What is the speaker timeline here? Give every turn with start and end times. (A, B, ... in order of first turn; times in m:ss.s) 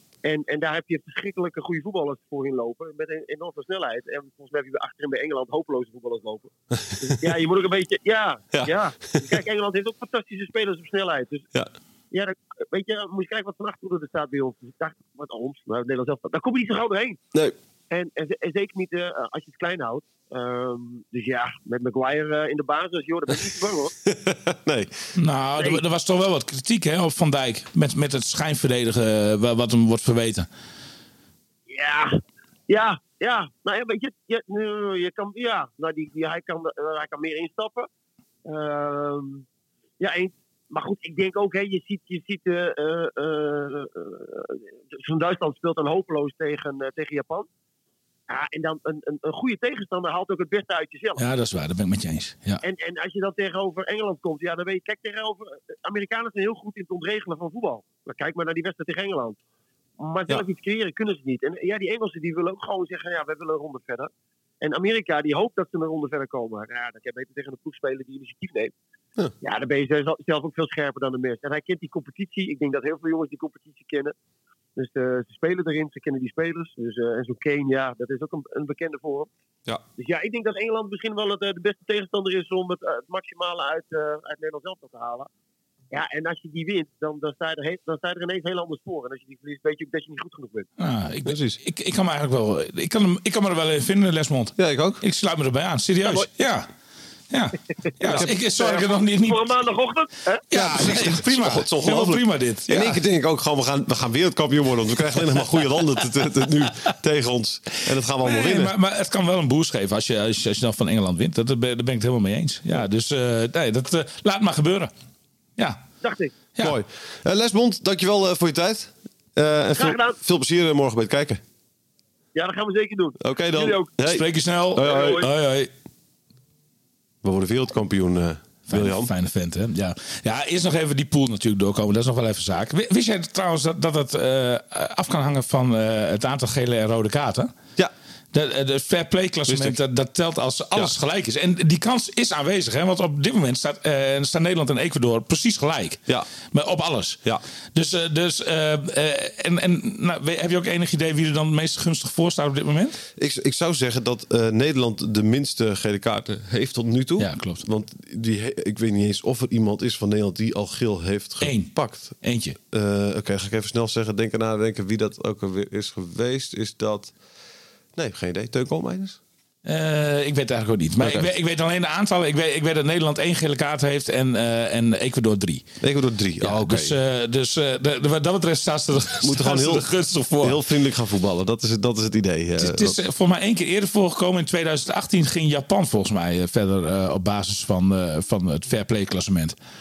0:00.2-0:11.5 A
0:06.8-0:07.2 B
0:08.5-0:09.2 B
0:12.1-0:17.2 A
0:17.9-0:23.9 A
0:24.0-0:24.9 B
0:25.2-0:30.5 C
0:31.7-0:37.9 A
0:38.4-0:39.4 A
0:40.0-0:47.5 A
0:48.3-0:51.2 A
0:51.2-0:52.6 C
0:52.6-0:59.4 A
1:00.0-1:04.1 A
1:04.6-1:08.7 A
1:09.4-1:14.1 A
1:14.8-1:19.3 A
1:20.0-1:25.3 A
1:25.9-1:30.7 A
1:30.8-1:36.7 C
1:31.2-1:31.6 B
1:34.6-1:35.0 B
1:37.3-1:39.5 C
1:38.0-1:40.8 A
1:40.5-1:43.0 C
1:40.5-1:48.7 B
1:48.2-1:54.9 C
1:56.0-1:56.3 A
1:56.6-2:01.4 B
1:59.7-2:00.2 A
2:02.3-2:03.9 A
2:03.2-2:04.2 B
2:04.0-2:05.7 C
2:04.7-2:05.2 B
2:04.8-2:05.2 A
2:07.2-2:09.1 B
2:08.7-2:17.6 C
2:18.3-2:27.2 C
2:19.4-2:19.8 B
2:27.7-2:33.0 C
2:33.2-2:42.2 B
2:37.2-2:37.6 C
2:41.4-2:42.6 C
2:42.7-2:47.1 B
2:48.0-2:49.2 B
2:49.6-2:55.6 C
2:51.0-2:51.3 B
2:55.8-2:57.0 B
2:56.4-3:00.6 C
2:59.2-2:59.9 B
3:00.4-3:03.0 B
3:02.6-3:09.5 C